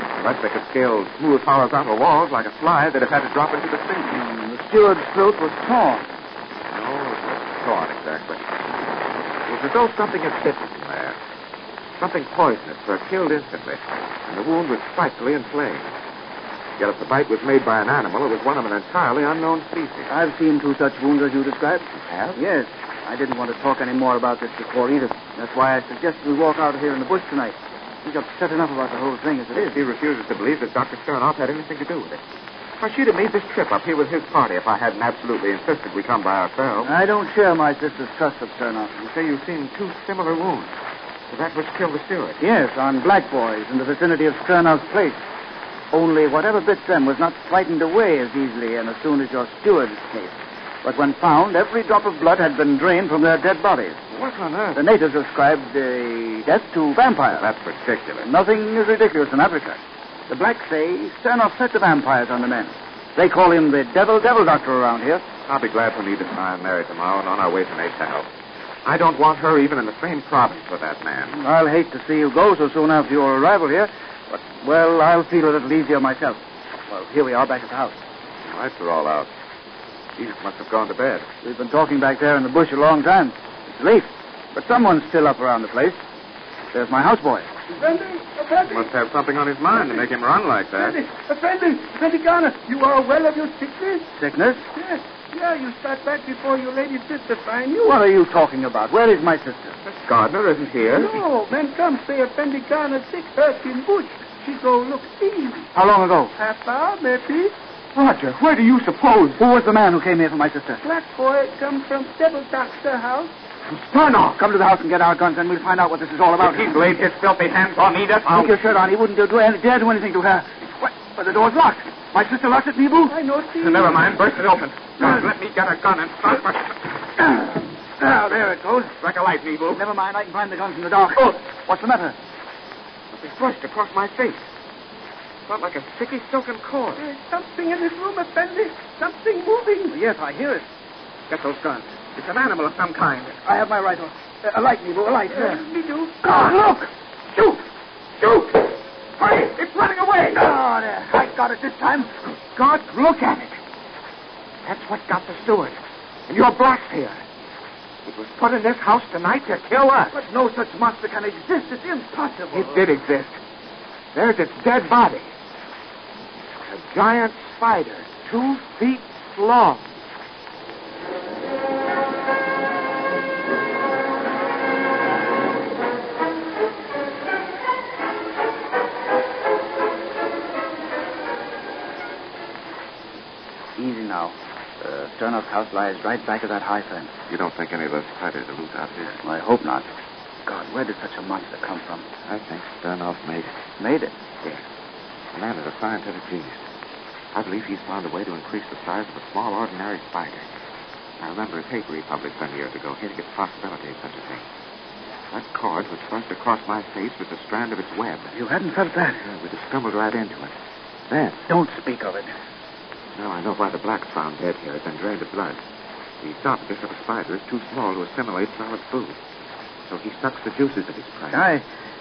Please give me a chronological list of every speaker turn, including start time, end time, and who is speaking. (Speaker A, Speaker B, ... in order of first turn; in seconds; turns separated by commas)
Speaker A: 0.2-4.2, Speaker B: 4.1-6.2, Speaker A: 6.7-8.5, Speaker A: 9.4-11.2, Speaker A: 12.0-15.9, Speaker A: 16.8-20.1, Speaker B: 20.1-29.8, Speaker A: 21.9-22.4, Speaker A: 29.5-32.2, Speaker A: 32.8-36.9, Speaker B: 36.8-38.9, Speaker A: 39.0-40.7, Speaker A: 41.3-42.4, Speaker B: 42.4-45.2, Speaker B: 45.9-54.0, Speaker A: 54.1-54.8, Speaker B: 54.7-57.5, Speaker A: 57.3-58.3, Speaker B: 58.2-65.2, Speaker A: 65.5-68.3, Speaker A: 68.8-71.3, Speaker B: 71.3-78.0, Speaker A: 78.5-79.3, Speaker A: 80.2-81.2, Speaker B: 81.4-86.0, Speaker B: 86.7-87.5, Speaker C: 87.7-88.9, Speaker A: 88.7-91.0, Speaker C: 89.7-90.2, Speaker C: 90.7-94.1, Speaker B: 94.2-94.7, Speaker C: 94.7-97.9, Speaker B: 97.8-99.8, Speaker A: 99.9-101.2, Speaker C: 100.8-105.7, Speaker B: 105.7-106.3, Speaker C: 106.4-107.5, Speaker A: 107.9-109.4, Speaker B: 109.4-110.8, Speaker C: 110.8-113.3, Speaker A: 113.7-114.4, Speaker B: 114.3-116.8, Speaker A: 116.4-118.6, Speaker B: 118.2-123.2, Speaker C: 123.1-124.2, Speaker A: 123.6-126.7, Speaker B: 125.0-125.3, Speaker B: 127.2-128.9, Speaker A: 129.0-129.8, Speaker B: 129.7-132.2, Speaker A: 133.1-134.4, Speaker A: 135.5-137.0, Speaker C: 136.9-140.0, Speaker B: 139.9-140.7, Speaker A: 141.3-143.3, Speaker B: 143.4-145.6, Speaker C: 145.2-146.5, Speaker A: 146.3-146.6, Speaker A: 148.2-150.4, Speaker B: 150.3-152.3, Speaker A: 152.5-153.6, Speaker A: 154.6-157.2, Speaker A: 158.0-160.2, Speaker B: 160.1-162.8, Speaker A: 162.5-163.4, Speaker A: 164.1-165.3, Speaker A: 166.5-169.8, Speaker B: 183.8-187.1, Speaker A: 187.3-189.2, Speaker B: 189.0-189.9, Speaker B: 190.4-192.1, Speaker A: 192.2-193.6, Speaker B: 193.8-194.1, Speaker A: 195.3-196.6, Speaker A: 197.3-200.5, Speaker A: 201.2-204.4, Speaker A: 205.3-208.3, Speaker B: 208.3-209.2, Speaker A: 209.2-210.5, Speaker A: 211.1-211.4, Speaker B: 211.5-212.3, Speaker A: 213.1-215.6, Speaker A: 216.2-219.2, Speaker A: 219.9-221.5, Speaker B: 221.3-221.6